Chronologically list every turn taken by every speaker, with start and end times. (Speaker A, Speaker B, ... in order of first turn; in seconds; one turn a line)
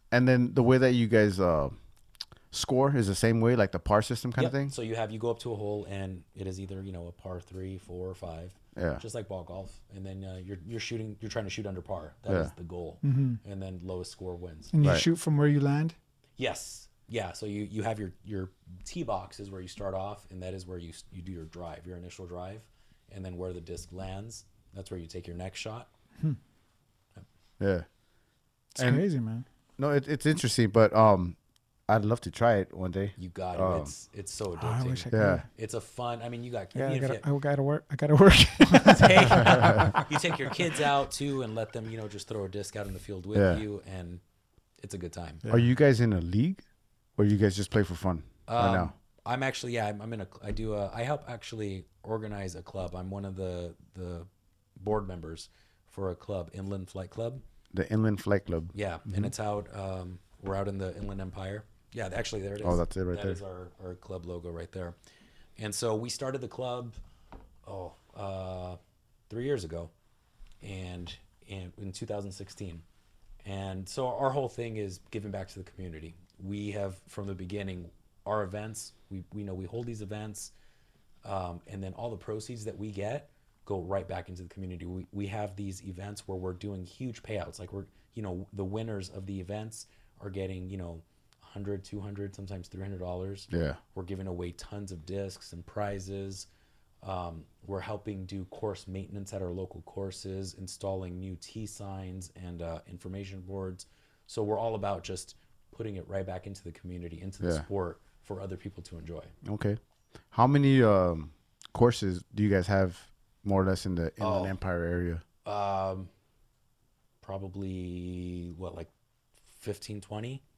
Speaker A: 0.1-1.8
Speaker A: 2.5-4.7
Speaker B: 4.4-14.7
Speaker A: 8.8-9.0
Speaker C: 13.0-13.4
Speaker C: 14.7-15.9
Speaker B: 16.4-25.9
Speaker A: 27.6-27.9
Speaker C: 28.8-29.4
Speaker A: 28.8-29.0
Speaker A: 29.8-31.4
Speaker A: 31.9-33.9
Speaker B: 33.2-37.2
Speaker C: 34.6-35.5
Speaker A: 35.1-35.4
Speaker C: 36.8-40.0
Speaker B: 38.7-44.2
Speaker A: 39.5-39.9
Speaker A: 43.3-43.6
Speaker B: 44.8-45.4
Speaker C: 45.4-45.7
Speaker A: 45.5-46.6
Speaker A: 47.2-48.9
Speaker B: 48.5-57.4
Speaker A: 57.7-59.3
Speaker B: 58.7-65.0
Speaker A: 62.6-63.4
Speaker B: 65.6-67.0
Speaker B: 67.6-69.9
Speaker B: 70.6-72.8
Speaker B: 73.4-80.5
Speaker B: 81.2-96.5
Speaker A: 93.5-93.8
Speaker B: 97.0-109.3
Speaker A: 109.4-109.8
Speaker A: 110.3-115.2
Speaker B: 114.2-114.5
Speaker B: 115.5-116.1
Speaker B: 117.2-118.9
Speaker B: 119.5-120.4